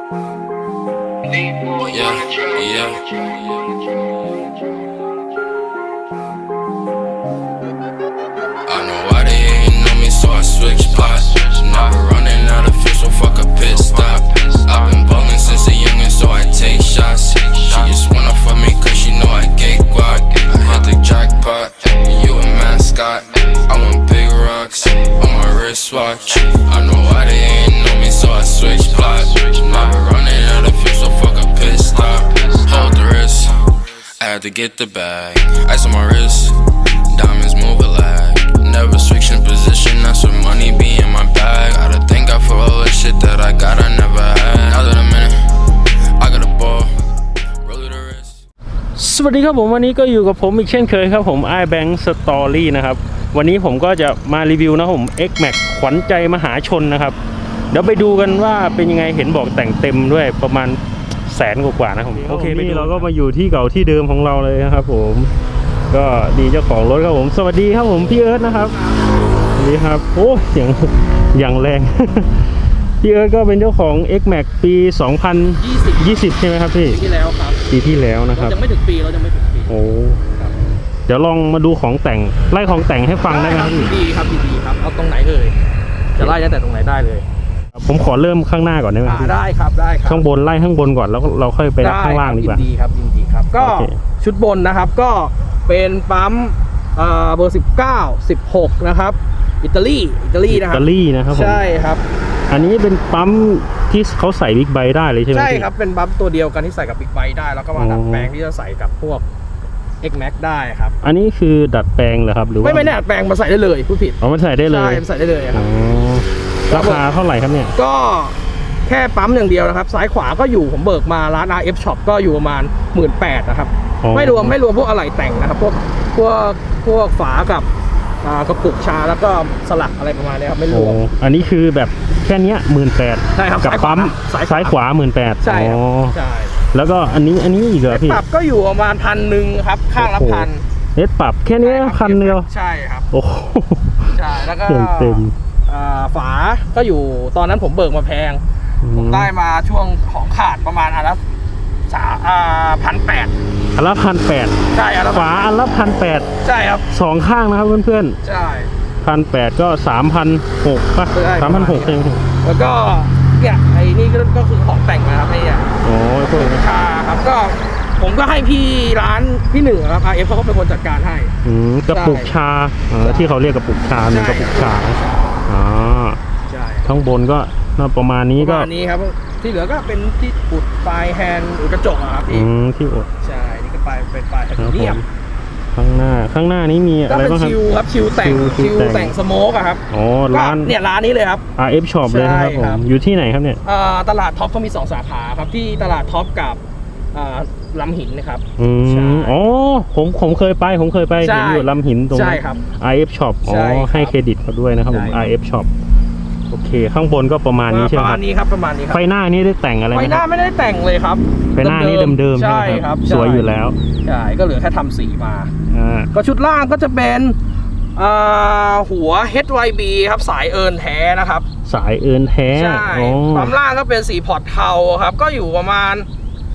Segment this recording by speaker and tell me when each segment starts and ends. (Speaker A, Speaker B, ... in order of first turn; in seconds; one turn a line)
Speaker A: 1.7-3.1
Speaker A: 8.6-45.5
Speaker A: 46.2-46.9
Speaker A: 47.6-48.4
Speaker B: 49.0-57.2
Speaker B: 57.7-65.3
Speaker C: 62.1-63.1
Speaker B: 65.9-68.8
Speaker C: 68.7-69.0
Speaker B: 69.5-77.0
Speaker C: 75.6-76.3
Speaker C: 76.8-77.6
Speaker B: 77.7-78.6
Speaker C: 78.3-79.7
Speaker B: 79.7-80.2
Speaker B: 81.1-83.9
Speaker C: 83.2-85.6
Speaker C: 86.1-87.2
Speaker B: 87.7-89.3
Speaker C: 89.0-90.2
Speaker B: 90.0-92.7
Speaker C: 91.8-102.0
Speaker B: 93.6-94.0
Speaker B: 100.5-101.6
Speaker B: 102.5-105.7
Speaker C: 105.3-109.2
Speaker B: 107.7-108.3
Speaker C: 110.0-111.0
Speaker B: 111.0-113.0
Speaker C: 112.6-115.7
Speaker B: 114.2-117.7
Speaker C: 116.7-117.0
Speaker C: 117.7-127.7
Speaker B: 124.0-124.6
Speaker C: 128.2-131.0
Speaker B: 130.7-136.2
Speaker C: 133.3-134.8
Speaker C: 135.4-136.6
Speaker B: 136.7-138.2
Speaker C: 137.9-140.6
Speaker B: 139.9-142.5
Speaker C: 141.6-143.1
Speaker B: 143.1-145.3
Speaker C: 144.1-151.2
Speaker B: 148.8-149.3
Speaker C: 151.9-153.3
Speaker B: 153.7-156.3
Speaker C: 154.7-155.4
Speaker C: 156.4-156.9
Speaker B: 156.9-158.2
Speaker C: 158.2-158.7
Speaker B: 159.0-162.2
Speaker C: 161.1-171.3
Speaker B: 165.8-166.6
Speaker B: 171.4-176.2
Speaker C: 171.9-172.3
Speaker C: 173.0-173.3
Speaker C: 174.1-175.3
Speaker C: 176.4-176.9
Speaker B: 176.8-178.7
Speaker C: 178.4-182.5
Speaker B: 182.3-183.1
Speaker C: 183.2-185.0
Speaker B: 184.6-185.1
Speaker B: 185.7-187.6
Speaker C: 187.1-191.4
Speaker B: 188.1-189.1
Speaker B: 189.9-190.7
Speaker B: 191.6-193.6
Speaker C: 192.0-192.8
Speaker C: 193.6-196.6
Speaker C: 197.1-199.3
Speaker B: 198.6-205.7
Speaker C: 201.2-202.6
Speaker C: 203.4-204.1
Speaker C: 204.9-205.2
Speaker B: 206.5-208.2
Speaker C: 207.7-209.0
Speaker B: 208.9-210.2
Speaker C: 209.9-213.5
Speaker B: 211.5-213.8
Speaker C: 214.0-215.5
Speaker B: 215.7-216.1
Speaker C: 216.1-217.4
Speaker C: 217.9-221.4
Speaker B: 221.7-223.5
Speaker C: 222.5-226.1